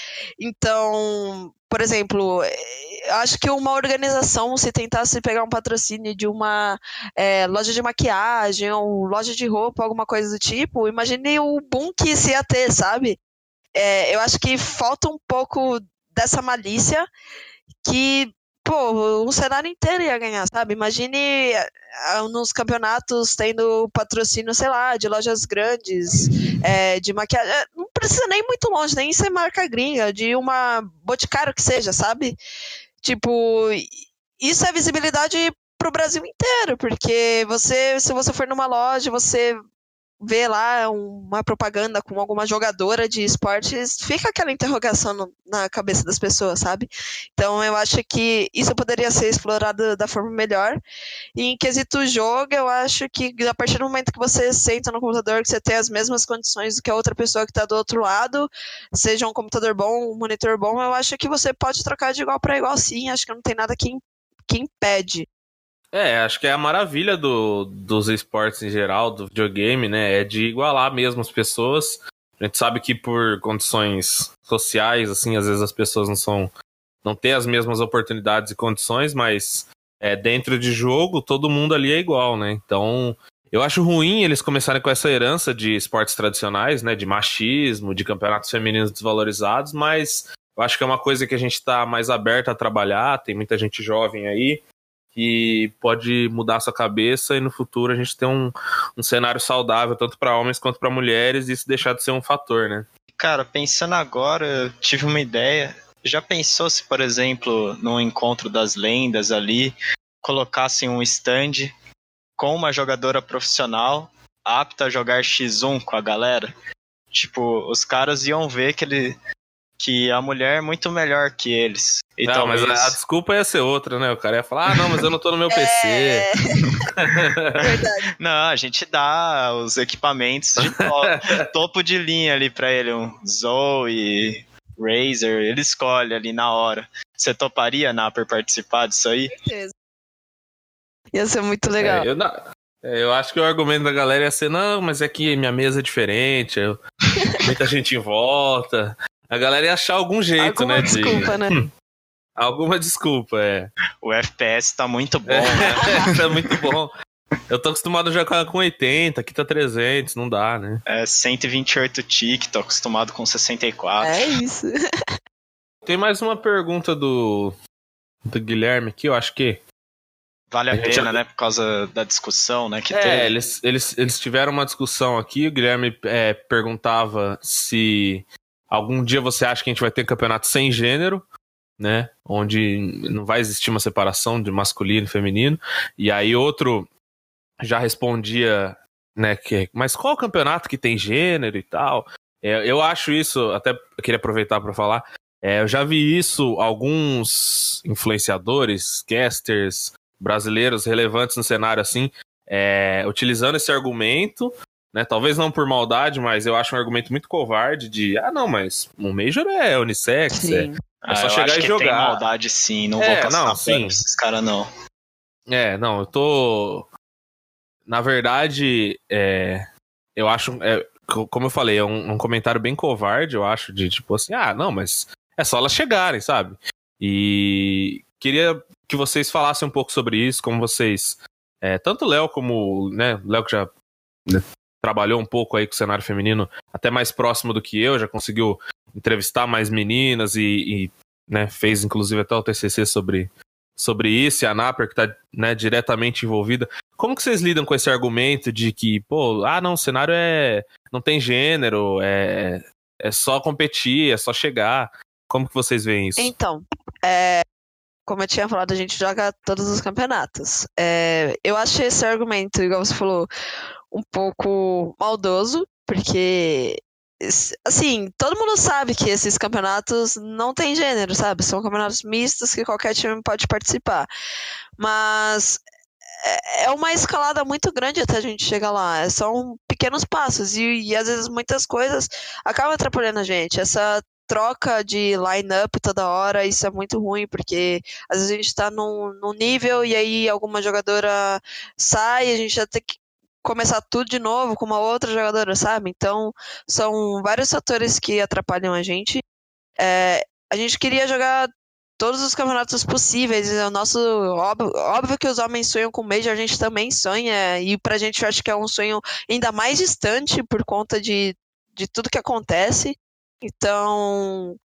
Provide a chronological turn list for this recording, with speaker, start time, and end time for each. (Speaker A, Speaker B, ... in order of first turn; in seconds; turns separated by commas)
Speaker A: 0.4-13.2, Speaker A: 13.8-17.1, Speaker A: 17.8-32.4, Speaker A: 33.0-33.9, Speaker A: 34.4-39.6, Speaker A: 40.2-50.8, Speaker A: 51.4-65.3, Speaker B: 65.9-76.5, Speaker B: 77.0-94.6, Speaker B: 95.1-102.9, Speaker C: 103.1-111.7, Speaker C: 112.4-116.5, Speaker C: 117.1-119.2, Speaker C: 119.8-123.0, Speaker B: 122.2-126.2, Speaker A: 125.5-126.6, Speaker B: 127.0-127.6, Speaker A: 127.6-128.1, Speaker C: 128.2-139.3, Speaker B: 130.6-131.4, Speaker A: 139.4-139.7, Speaker A: 141.1-142.1, Speaker B: 141.8-146.8, Speaker B: 147.4-151.7, Speaker A: 150.4-151.5, Speaker B: 152.4-153.7, Speaker C: 154.0-156.6, Speaker B: 155.3-156.9, Speaker B: 157.5-160.8, Speaker C: 160.9-164.1, Speaker A: 164.0-164.7, Speaker B: 165.8-167.6, Speaker B: 168.3-169.6, Speaker C: 170.5-173.3, Speaker B: 170.7-171.2, Speaker B: 172.9-181.2, Speaker B: 181.8-186.9, Speaker B: 187.6-212.2, Speaker A: 210.3-210.8, Speaker C: 211.0-214.7, Speaker B: 213.0-214.0, Speaker B: 215.5-216.9, Speaker B: 217.9-233.7, Speaker B: 234.3-256.3, Speaker A: 256.2-257.4, Speaker A: 258.1-263.3, Speaker A: 263.9-274.1, Speaker A: 274.8-275.6, Speaker A: 276.2-299.2, Speaker A: 299.8-314.6